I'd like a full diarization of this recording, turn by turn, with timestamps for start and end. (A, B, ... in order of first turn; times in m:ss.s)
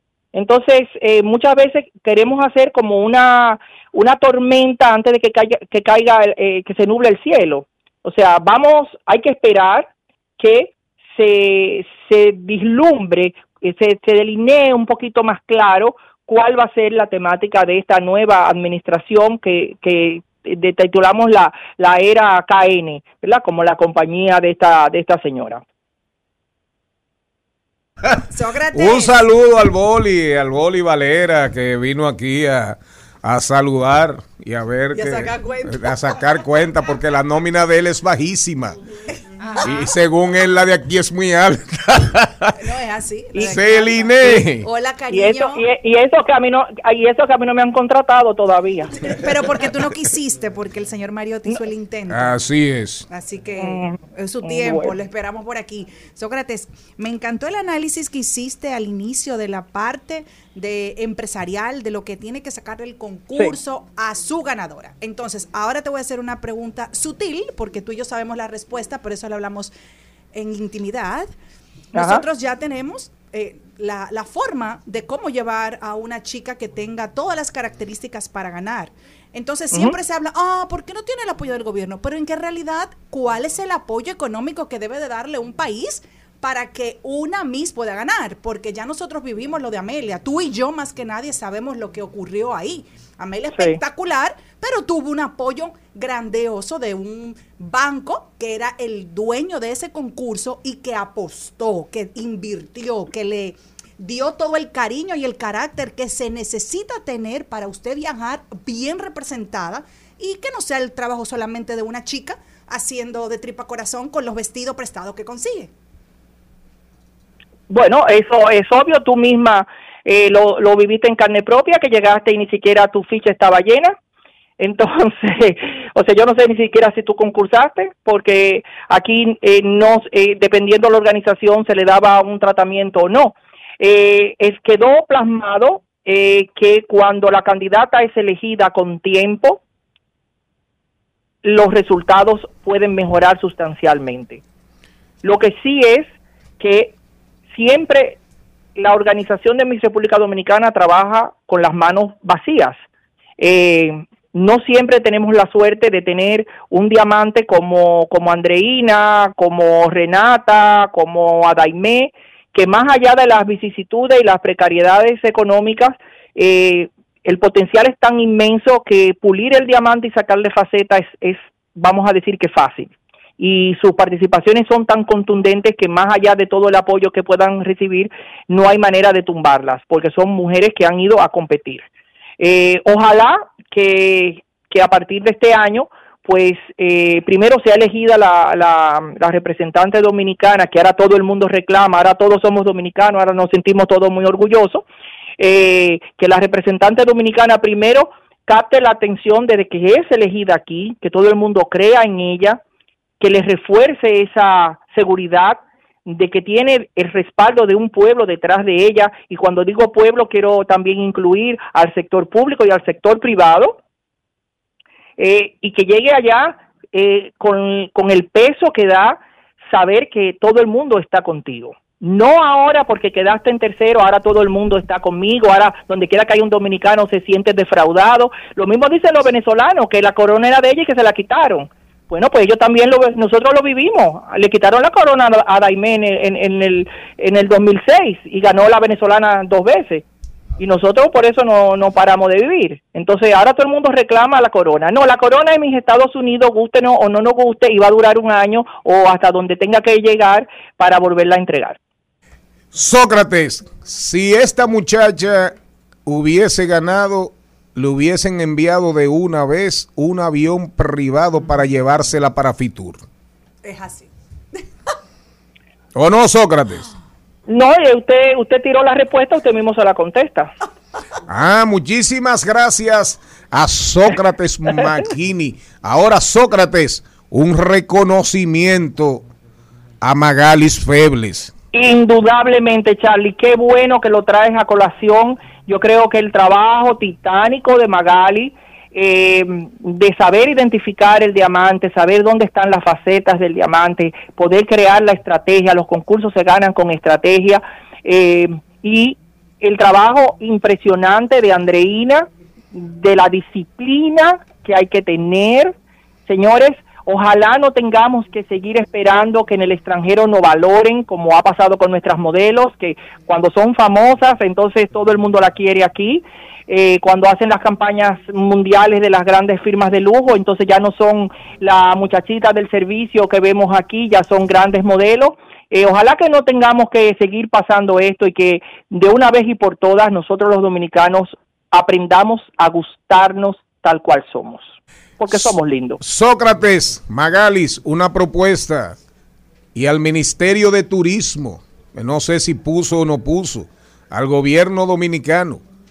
0:00.3-0:25.6 A
0:28.2-0:29.3 B
0:28.7-0:38.8 C
0:34.9-0:36.2 B
0:39.4-0:39.8 B
0:39.6-0:42.6 C
0:42.6-0:45.6 B
0:43.4-0:43.6 A
0:43.4-0:44.6 C
0:45.1-0:49.2 A
0:49.1-0:52.4 B
0:52.1-0:53.1 C
0:53.1-1:09.7 B
0:53.6-0:54.9 A
1:10.3-1:11.3 B
1:11.9-1:12.2 A
1:11.9-1:55.7 B
1:19.7-1:20.0 A
1:33.6-1:33.8 A
1:57.7-2:04.0 A
2:04.6-2:19.6 A
2:21.4-2:24.4 A
2:25.2-2:26.9 A
2:27.5-2:28.2 A
2:28.8-2:32.8 A
2:33.4-3:01.8 A
3:02.4-3:14.8 A
3:15.4-3:22.6 A
3:23.2-3:33.8 A
3:35.2-4:00.0 A
4:00.6-4:11.8 A
4:12.7-4:15.6 C
4:16.1-4:23.0 C
4:23.6-4:24.1 B
4:25.9-4:26.9 C
4:27.5-4:30.5 A
4:31.3-4:39.2 C
4:40.0-4:41.5 C
4:41.7-5:05.7 A
5:06.3-5:36.0 A
5:36.0-5:39.0 C
5:39.7-5:45.6 C